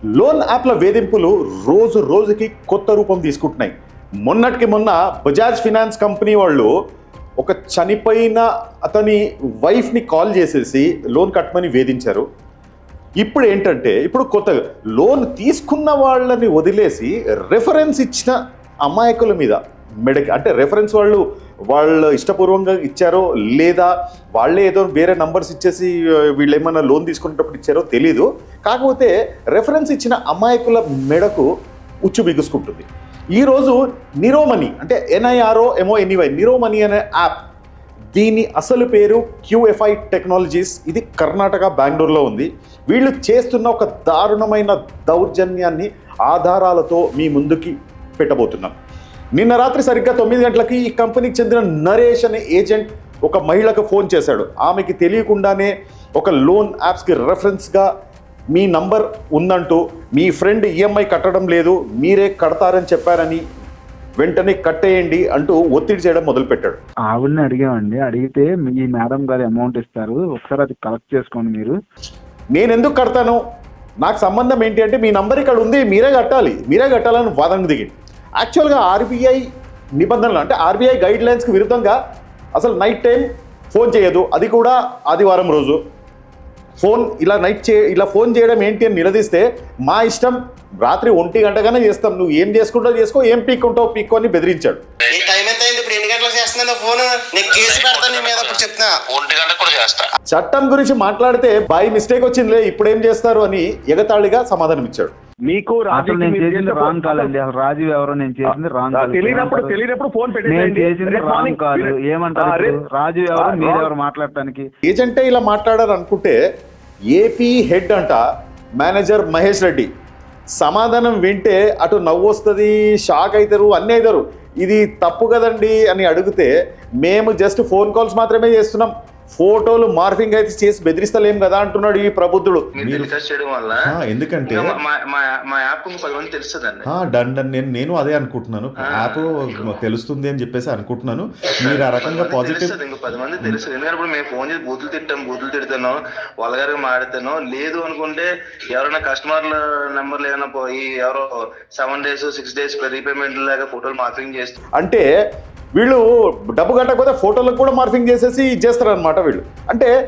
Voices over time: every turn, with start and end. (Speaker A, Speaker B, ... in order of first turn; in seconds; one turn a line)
Speaker A: 0.1-3.7
Speaker A: 4.2-6.7
Speaker A: 7.4-12.3
Speaker A: 13.2-31.5
Speaker A: 32.1-37.4
Speaker A: 38.1-48.7
Speaker A: 49.4-57.9
Speaker A: 58.5-63.4
Speaker A: 64.2-66.8
Speaker B: 67.1-71.8
Speaker A: 72.5-73.4
Speaker A: 74.0-79.4
Speaker A: 80.0-82.0
Speaker A: 82.5-85.8
Speaker A: 86.8-94.8
Speaker C: 95.1-99.5
Speaker D: 97.4-100.1
Speaker A: 100.3-105.1
Speaker E: 105.5-107.3
Speaker B: 105.9-109.8
Speaker E: 108.5-112.8
Speaker B: 110.5-114.7
Speaker E: 113.3-113.9
Speaker A: 114.8-116.4
Speaker A: 117.1-118.2
Speaker A: 118.8-119.9
Speaker A: 120.6-126.5
Speaker A: 127.0-133.1
Speaker D: 132.8-133.8
Speaker A: 133.8-134.8
Speaker D: 134.5-136.9
Speaker A: 136.9-142.8
Speaker D: 138.8-139.8
Speaker D: 141.6-154.6
Speaker A: 154.8-155.1
Speaker A: 155.8-159.9